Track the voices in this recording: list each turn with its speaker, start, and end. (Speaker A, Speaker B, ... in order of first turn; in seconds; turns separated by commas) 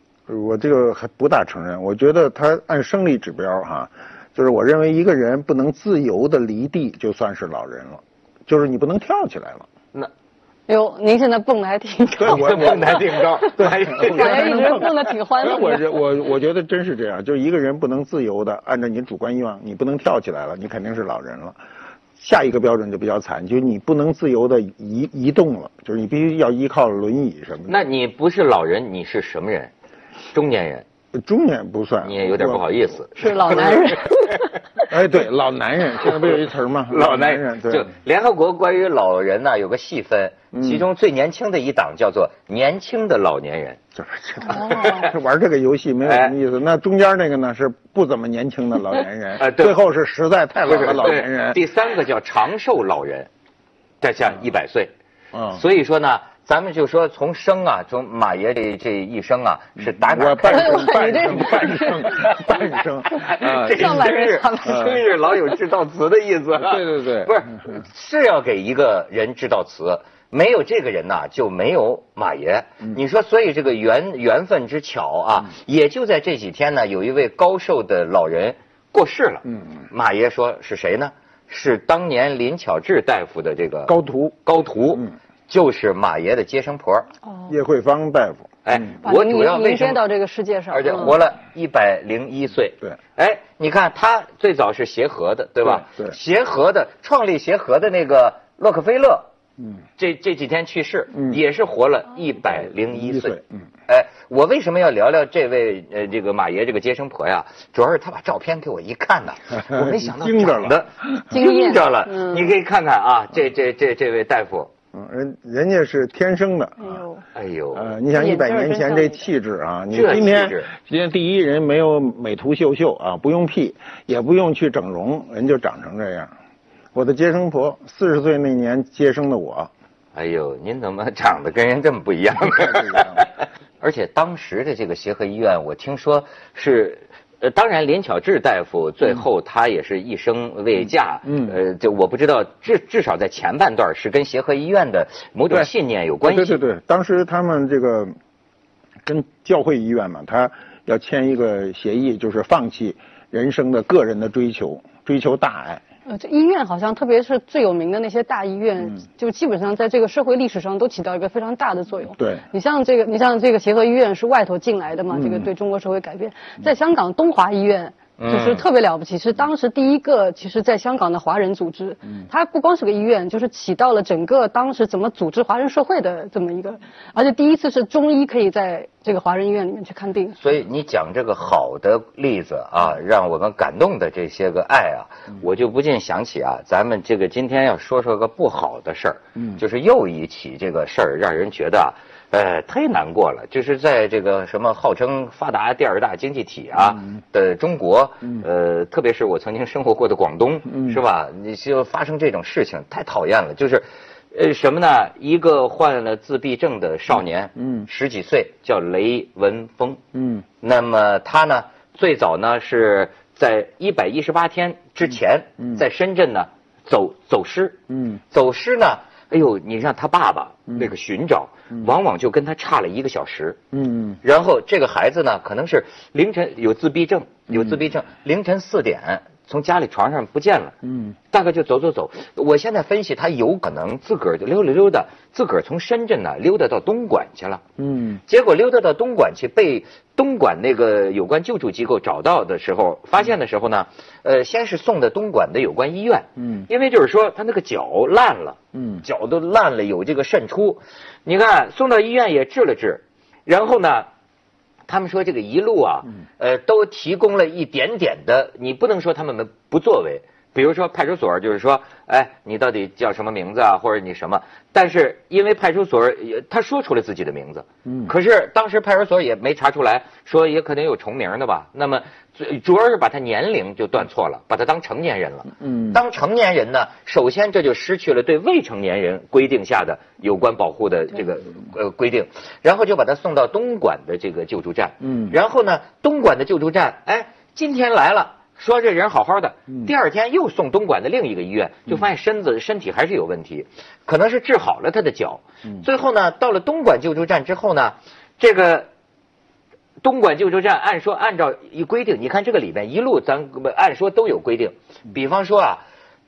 Speaker A: 0.3-9.7, Speaker B: 10.7-15.9, Speaker A: 12.2-14.9, Speaker C: 12.2-15.0, Speaker A: 15.4-21.6, Speaker A: 22.2-27.8, Speaker C: 27.7-29.7, Speaker C: 30.3-30.8, Speaker A: 31.1-32.8, Speaker C: 32.0-34.0, Speaker B: 33.2-34.5, Speaker A: 34.9-37.9, Speaker C: 36.1-43.8, Speaker A: 40.5-40.9, Speaker A: 43.9-51.6, Speaker B: 44.5-45.0, Speaker C: 44.6-45.1, Speaker C: 46.0-46.3, Speaker C: 49.4-49.8, Speaker C: 50.6-53.3, Speaker C: 54.0-54.9, Speaker A: 55.3-55.6, Speaker C: 55.5-62.6, Speaker A: 60.1-64.1, Speaker B: 60.5-62.3, Speaker C: 63.1-83.9, Speaker B: 63.1-65.3, Speaker A: 64.6-65.0, Speaker A: 66.6-67.8, Speaker A: 83.9-84.4, Speaker C: 84.4-87.1, Speaker A: 87.5-88.8, Speaker C: 88.6-90.0, Speaker B: 89.0-91.2, Speaker C: 90.7-99.3, Speaker A: 95.6-96.2, Speaker C: 100.0-114.7, Speaker A: 101.1-101.4, Speaker A: 102.9-103.4, Speaker A: 109.7-110.8, Speaker B: 111.3-112.5, Speaker A: 114.9-117.0, Speaker B: 116.8-117.2, Speaker C: 117.3-117.9, Speaker A: 117.7-126.3, Speaker B: 118.1-119.3, Speaker C: 119.9-120.7, Speaker A: 126.9-129.7, Speaker C: 130.1-146.6, Speaker A: 132.4-133.2, Speaker A: 141.2-141.5, Speaker A: 146.2-148.1, Speaker A: 149.0-155.8, Speaker B: 156.1-180.3, Speaker A: 162.2-162.4, Speaker A: 165.1-165.5, Speaker C: 168.2-168.6, Speaker C: 180.4-210.0, Speaker A: 200.7-201.0, Speaker A: 207.6-207.9, Speaker A: 210.1-210.4, Speaker C: 210.6-217.8, Speaker A: 217.9-218.2, Speaker C: 218.3-223.6, Speaker A: 223.7-224.2, Speaker C: 224.2-230.7, Speaker A: 230.8-231.2, Speaker C: 231.3-237.6, Speaker A: 237.8-238.2, Speaker C: 238.3-254.1, Speaker A: 246.4-246.7, Speaker A: 248.7-249.0, Speaker C: 254.9-298.9, Speaker A: 267.9-268.1, Speaker A: 275.6-276.0, Speaker A: 285.0-285.3, Speaker C: 300.0-305.8